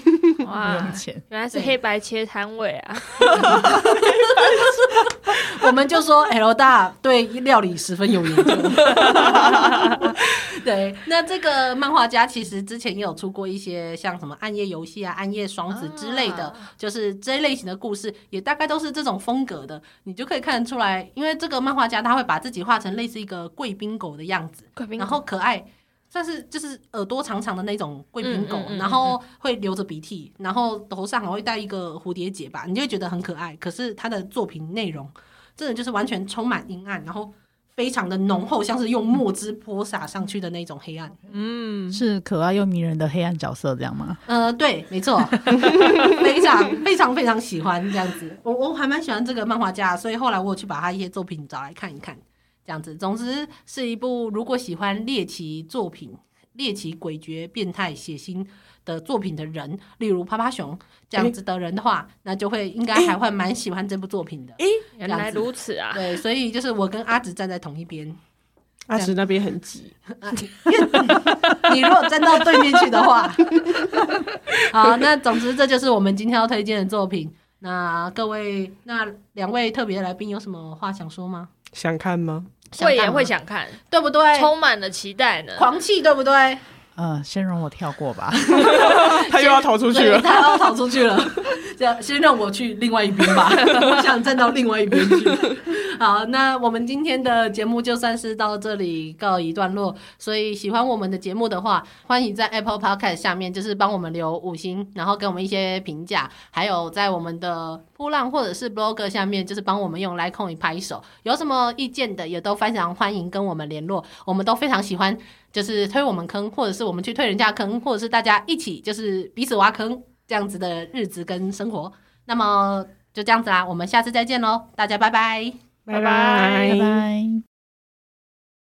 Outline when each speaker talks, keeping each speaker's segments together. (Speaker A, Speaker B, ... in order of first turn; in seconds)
Speaker A: 0.4-3.6, 15.7-16.6, 24.8-25.2, 28.2-29.2, 41.3-42.0, 65.0-66.1, 82.7-85.7
Speaker B: 0.4-1.2, 41.9-44.2, 87.0-88.6, 126.6-127.4
Speaker C: 1.5-1.8, 3.3-41.2, 44.2-68.2, 70.1-74.1, 74.7-81.5, 82.7-83.3, 83.9-84.5, 85.5-86.6, 88.5-125.6
Speaker D: 68.9-70.0, 71.1-71.6, 81.7-82.5, 88.6-90.7, 125.9-127.0